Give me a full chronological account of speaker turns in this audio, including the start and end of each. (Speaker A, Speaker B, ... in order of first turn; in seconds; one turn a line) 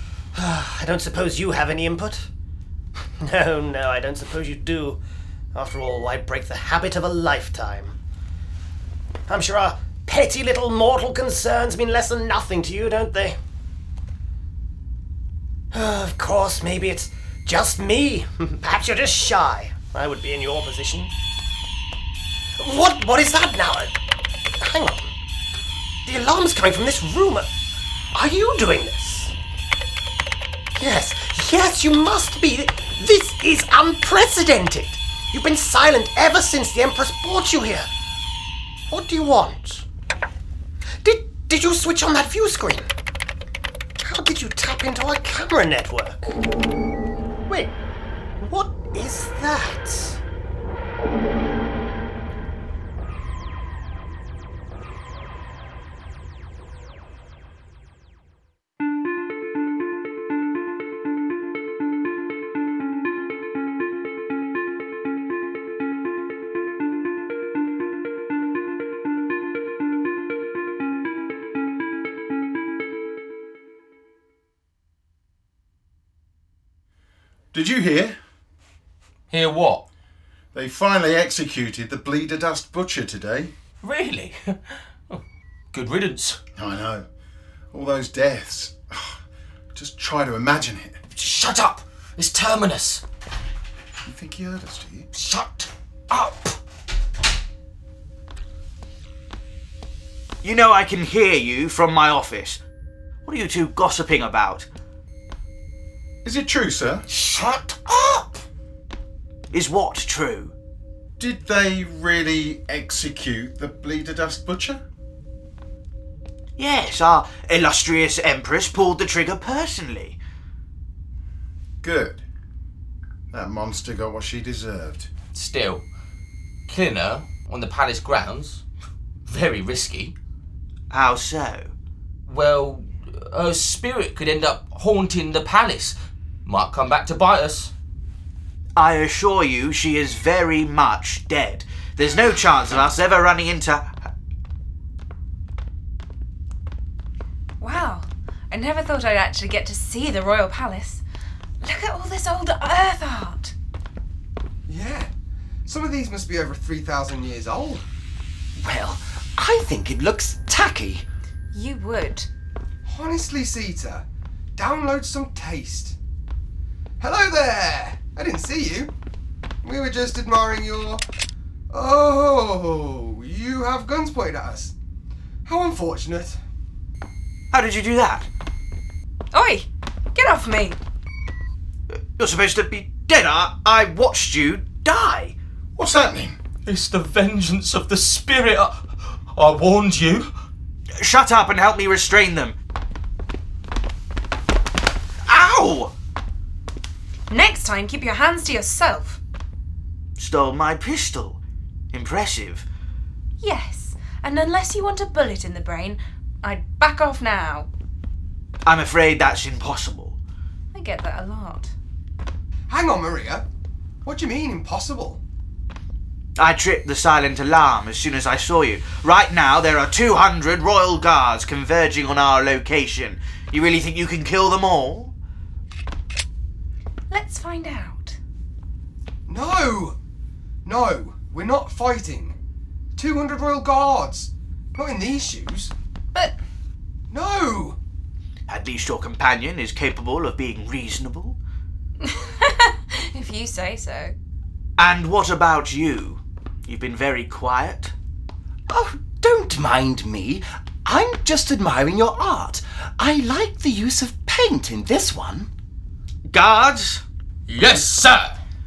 Speaker A: 0.3-2.3
Speaker A: 3.2-5.0
Speaker A: 5.5-8.0
Speaker A: 9.3-13.4
Speaker A: 15.7-21.1
Speaker A: 22.6-23.9
Speaker A: 24.6-25.1
Speaker A: 26.0-27.5
Speaker A: 28.1-29.4
Speaker A: 30.7-37.9
Speaker A: 38.9-39.9
Speaker A: 41.0-42.9
Speaker A: 44.0-46.4
Speaker A: 47.5-47.7
Speaker A: 48.4-50.2
Speaker B: 77.5-78.2
Speaker C: 79.3-79.8
Speaker B: 80.5-83.5
Speaker C: 83.8-84.6
Speaker C: 85.7-86.4
Speaker B: 86.5-87.1
Speaker B: 87.7-89.2
Speaker B: 89.7-91.0
Speaker C: 91.1-93.0
Speaker B: 94.0-95.1
Speaker C: 95.1-96.4
Speaker D: 100.4-102.6
Speaker D: 103.2-104.7
Speaker B: 106.2-107.0
Speaker E: 107.1-108.4
Speaker D: 109.5-110.5
Speaker B: 111.2-114.8
Speaker D: 116.6-120.2
Speaker B: 121.8-122.2
Speaker B: 123.3-125.1
Speaker C: 125.3-125.8
Speaker C: 126.7-128.6
Speaker C: 129.3-130.1
Speaker D: 130.9-131.7
Speaker C: 132.3-137.7
Speaker D: 138.8-143.9
Speaker F: 147.6-151.0
Speaker F: 151.6-153.5
Speaker G: 154.7-155.1
Speaker G: 155.7-157.8
Speaker E: 158.6-161.1
Speaker F: 161.5-162.3
Speaker G: 162.8-165.9
Speaker G: 167.0-168.9
Speaker G: 169.6-171.0
Speaker G: 171.7-174.7
Speaker G: 175.4-176.4
Speaker D: 177.5-178.3
Speaker F: 179.3-180.8
Speaker D: 182.2-185.3
Speaker B: 185.8-186.4
Speaker C: 186.6-190.3
Speaker D: 191.0-192.6
Speaker D: 195.2-195.9
Speaker F: 197.3-199.2
Speaker D: 200.2-201.4
Speaker D: 201.9-202.6
Speaker F: 203.4-207.7
Speaker D: 208.6-210.2
Speaker F: 210.7-211.7
Speaker G: 212.7-213.4
Speaker G: 214.0-215.2
Speaker D: 216.4-225.1
Speaker F: 227.1-228.2
Speaker G: 229.3-229.9
Speaker G: 230.6-232.3
Speaker G: 232.9-235.7
Speaker G: 237.1-237.8
Speaker D: 238.5-241.4
Speaker F: 242.0-244.1
Speaker D: 244.8-247.9
Speaker E: 248.7-255.5
Speaker D: 256.3-257.0
Speaker C: 257.5-258.4